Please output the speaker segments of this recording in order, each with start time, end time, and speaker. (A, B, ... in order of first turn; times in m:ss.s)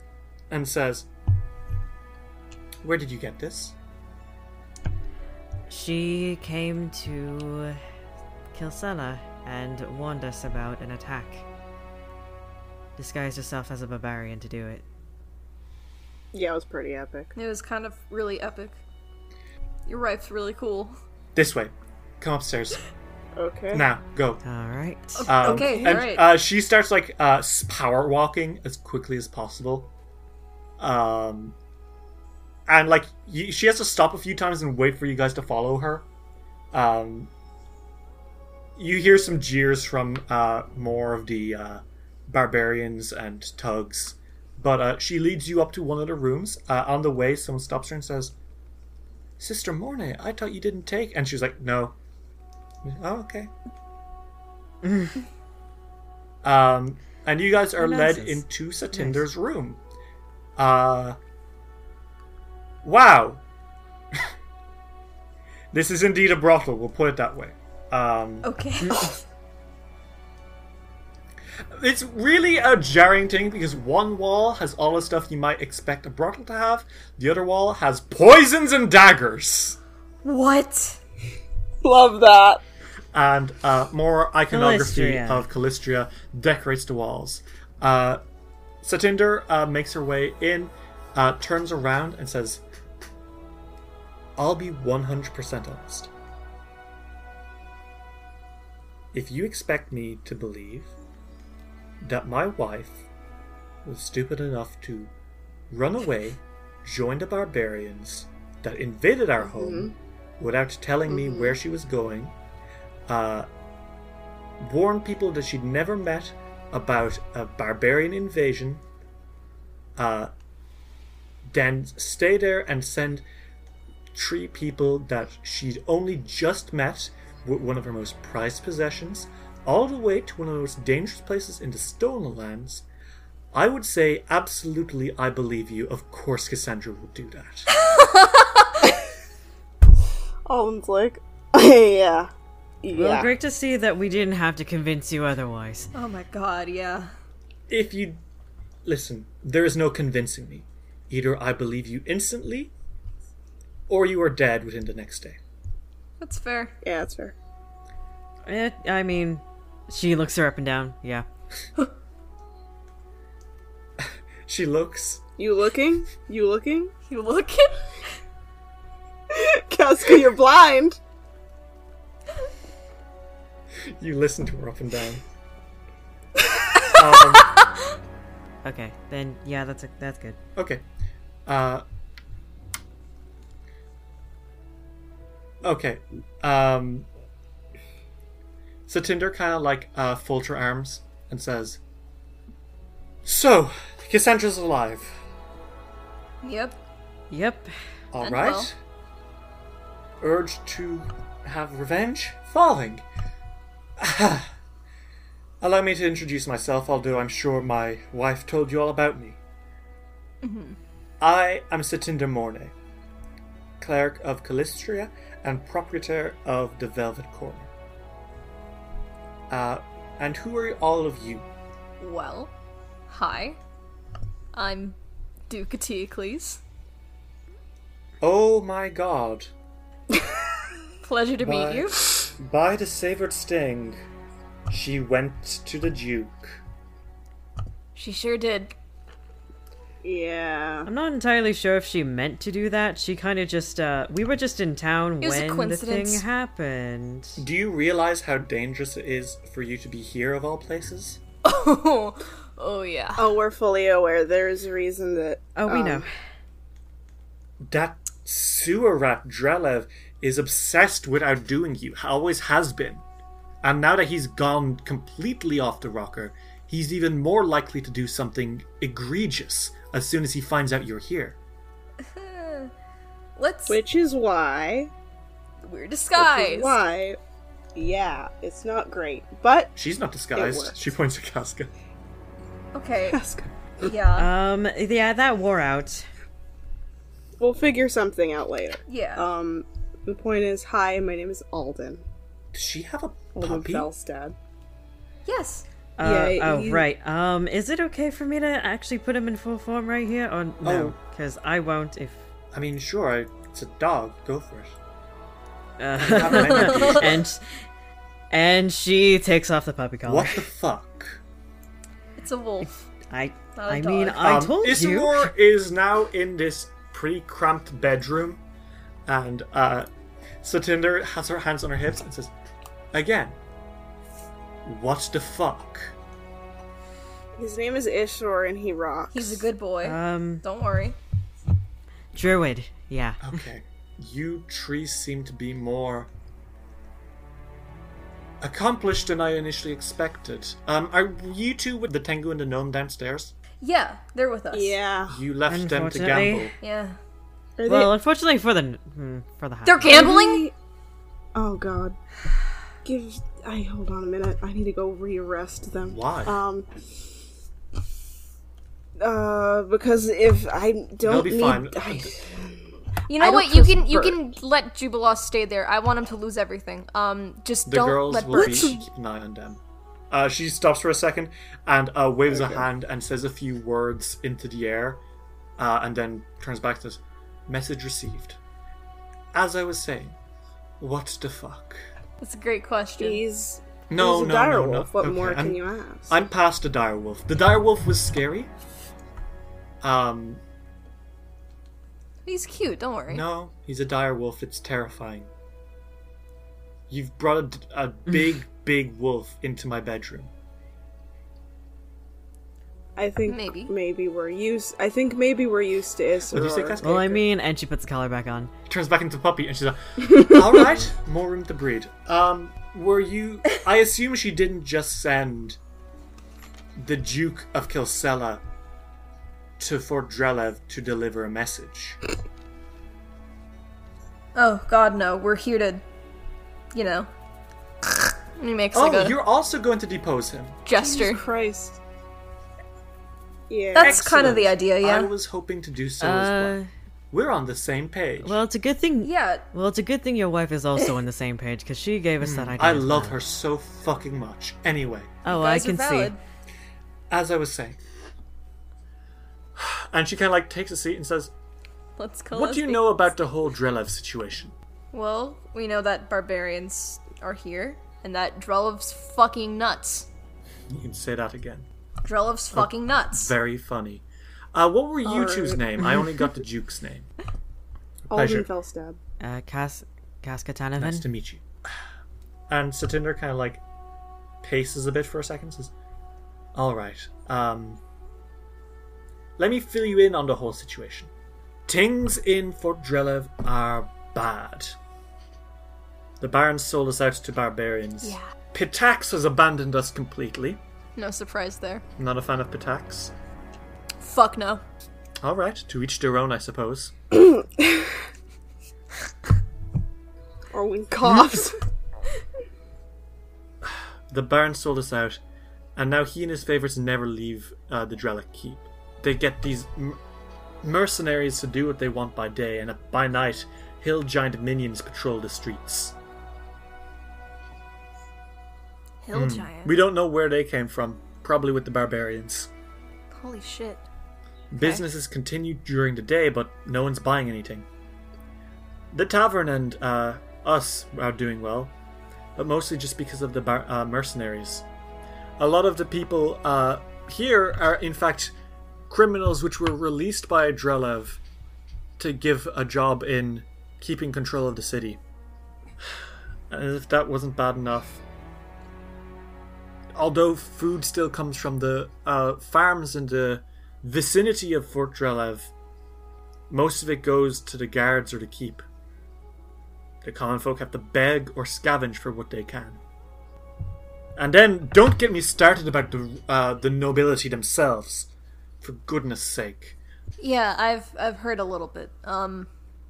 0:00.5-0:01.1 A
0:02.8-0:03.7 A
0:05.7-0:07.8 B
0:08.5-0:11.4 B
0:13.0-0:14.8 B
0:16.3-0:17.3 C
0:17.3-0:18.8 D
0:19.8-0:20.9 D
0:21.3-0:22.8 A
0:23.4-0:23.8 C
0:23.7-0:24.4 A
0:24.4-0:25.2 B
0:25.2-0:26.2 D
0:25.2-0:29.9 A
0:25.4-0:26.0 C
0:30.8-0:31.6 A
0:32.7-0:36.0 A
0:36.7-0:37.3 A
0:38.8-0:48.3 A
0:49.4-0:52.0 A
0:52.8-0:53.5 A
0:54.8-0:55.2 B
0:56.4-0:59.8 A
0:57.8-0:58.4 B
0:58.9-0:59.2 B
1:00.6-1:01.2 A
1:02.8-1:03.4 A
1:05.7-1:08.5 A
1:08.4-1:09.1 D
1:08.8-1:09.1 B
1:11.7-1:19.8 A
1:20.2-1:21.0 D
1:21.8-1:22.6 C
1:23.1-1:28.2 A
1:24.5-1:25.4 B
1:28.8-1:32.6 A
1:34.4-1:36.1 A
1:39.1-1:40.9 A
1:42.0-1:43.0 A
1:43.8-1:45.1 A
1:45.7-1:52.3 A
1:49.4-1:49.9 C
1:51.1-1:51.5 C
1:53.1-1:53.5 A
1:54.6-1:58.8 A
2:00.0-2:00.3 A
2:01.5-2:03.2 A
2:04.1-2:12.8 A
2:13.5-2:17.7 A
2:17.7-2:18.8 D
2:20.4-2:22.3 C
2:22.8-2:23.3 C
2:22.9-2:25.9 B
2:25.9-2:27.1 D
2:27.7-2:28.2 A
2:28.8-2:32.7 A
2:33.9-2:35.4 A
2:36.2-2:36.7 D
2:36.8-2:37.3 C
2:38.5-2:41.2 B
2:44.0-2:45.2 A
2:45.4-2:46.9 C
2:47.1-2:47.8 D
2:49.3-2:51.0 C
2:54.0-2:55.2 A
2:56.9-2:57.6 A
2:58.6-3:00.4 B
3:00.6-3:00.8 A
3:01.4-3:01.8 A
3:05.6-3:07.1 A
3:08.9-3:11.8 A
3:13.2-3:15.2 A
3:16.4-3:16.8 D
3:17.3-3:17.7 B
3:18.1-3:18.7 A
3:18.2-3:18.7 D
3:20.2-3:23.0 A
3:24.0-3:24.5 A
3:25.6-3:29.4 A
3:30.4-3:30.8 D
3:31.2-3:32.7 A
3:33.8-3:37.7 A
3:39.5-3:41.4 A
3:42.0-3:42.5 D
3:43.1-3:43.6 D
3:44.5-3:45.0 D
3:45.5-3:46.6 D
3:48.2-3:49.5 A
3:51.0-3:52.0 D
3:51.4-3:54.0 A
3:54.7-3:56.6 A
3:57.9-3:58.7 D
4:00.0-4:00.9 C
4:00.8-4:07.4 B
4:05.2-4:06.2 D
4:07.4-4:11.2 A
4:11.4-4:13.4 D
4:13.2-4:16.1 C
4:15.5-4:16.1 B
4:17.6-4:23.0 A
4:23.6-4:31.4 A
4:32.0-4:32.7 D
4:33.4-4:33.8 D
4:33.7-4:34.9 C
4:35.6-4:36.8 D
4:36.2-4:37.2 C
4:37.7-4:39.7 C
4:39.8-4:41.7 A
4:40.3-4:40.8 C
4:42.7-4:43.2 D
4:43.1-4:43.9 C
4:43.8-4:44.3 D
4:44.2-4:46.1 B
4:47.4-4:52.0 C
4:48.9-4:49.2 D
4:52.5-4:53.9 A
4:53.3-4:54.4 C
4:55.2-4:55.6 D
4:56.0-5:02.3 B
4:56.0-4:56.8 C
5:00.6-5:01.0 A
5:02.5-5:04.8 A
5:05.8-5:07.4 B
5:06.0-5:07.2 A
5:06.2-5:07.1 D
5:08.3-5:10.4 B
5:10.0-5:11.2 A
5:12.2-5:12.8 D
5:12.6-5:15.3 B
5:13.5-5:14.3 D
5:14.2-5:18.4 A
5:19.1-5:19.9 A
5:20.4-5:22.3 A
5:22.9-5:23.4 A
5:24.6-5:25.9 A
5:27.4-5:29.5 C
5:29.1-5:31.0 D
5:29.8-5:30.4 B
5:32.1-5:33.2 B
5:33.2-5:36.1 A
5:38.4-5:43.3 A
5:43.6-5:44.8 D
5:44.5-5:45.2 C
5:45.1-5:46.5 A
5:45.5-5:46.5 B
5:46.6-5:47.0 D
5:47.6-5:47.9 C
5:47.7-5:50.1 B
5:49.6-5:50.5 D
5:49.8-5:50.5 C
5:51.3-5:52.0 C
5:52.8-5:56.7 C
5:55.8-5:56.4 A
5:59.0-6:02.6 C
6:01.0-6:02.2 A
6:03.1-6:08.8 D
6:03.2-6:04.2 C
6:07.6-6:15.0 A
6:08.3-6:08.8 C
6:12.3-6:12.6 C
6:15.6-6:18.4 A
6:19.3-6:20.2 A
6:20.8-6:21.8 A
6:22.2-6:23.2 D
6:23.0-6:26.1 C
6:23.9-6:28.5 A
6:29.8-6:30.4 A
6:32.2-6:33.2 D
6:33.1-6:35.3 A
6:36.9-6:40.3 A
6:43.0-6:47.1 C
6:43.3-6:43.7 D
6:46.3-6:47.2 A
6:46.8-6:48.5 B
6:48.7-6:55.6 A
6:50.1-6:50.4 C
6:56.8-6:58.4 A
6:59.6-7:02.0 A
7:04.3-7:05.8 D
7:06.7-7:07.1 D
7:08.4-7:09.2 D
7:08.7-7:10.6 A
7:10.6-7:11.2 D
7:10.7-7:11.8 C
7:13.5-7:14.0 C
7:13.7-7:15.1 D
7:13.8-7:16.6 A
7:16.0-7:16.7 B
7:17.1-7:18.4 A
7:18.2-7:23.2 B
7:19.0-7:19.5 D
7:22.2-7:25.2 A
7:25.2-7:26.1 B
7:25.3-7:26.2 D
7:27.1-7:27.8 A
7:29.6-7:31.3 A
7:32.0-7:33.0 D
7:32.3-7:34.5 A
7:34.9-7:40.1 D
7:40.7-7:41.7 A
7:42.0-7:43.3 D
7:42.5-7:47.1 A
7:45.0-7:45.7 C
7:45.9-7:46.1 B
7:48.1-7:48.5 A
7:48.1-7:49.0 C
7:49.2-7:51.0 B
7:50.8-7:51.4 A
7:52.5-7:53.6 A
7:54.4-7:55.7 A
7:56.5-7:57.8 A
7:59.4-8:01.1 A
8:01.7-8:04.8 A
8:06.2-8:10.6 A
8:11.0-8:11.8 D
8:12.0-8:13.1 A
8:14.0-8:14.6 D
8:15.2-8:16.9 A
8:17.6-8:17.8 C
8:20.5-8:21.6 C
8:23.6-8:25.2 A
8:25.8-8:30.0 A
8:30.6-8:36.0 A
8:39.0-8:39.8 D
8:39.1-8:42.5 A
8:43.1-8:43.9 D
8:44.5-8:47.7 A
8:44.5-8:44.8 D
8:48.9-8:51.7 A
8:52.4-8:54.6 A
8:55.4-8:58.3 A
8:58.9-9:01.2 A
9:02.0-9:05.0 A
9:06.5-9:08.0 A
9:10.0-9:15.5 A
9:16.5-9:18.6 A
9:20.0-9:22.8 A
9:24.2-9:28.1 A
9:28.6-9:29.8 A
9:30.2-9:32.5 D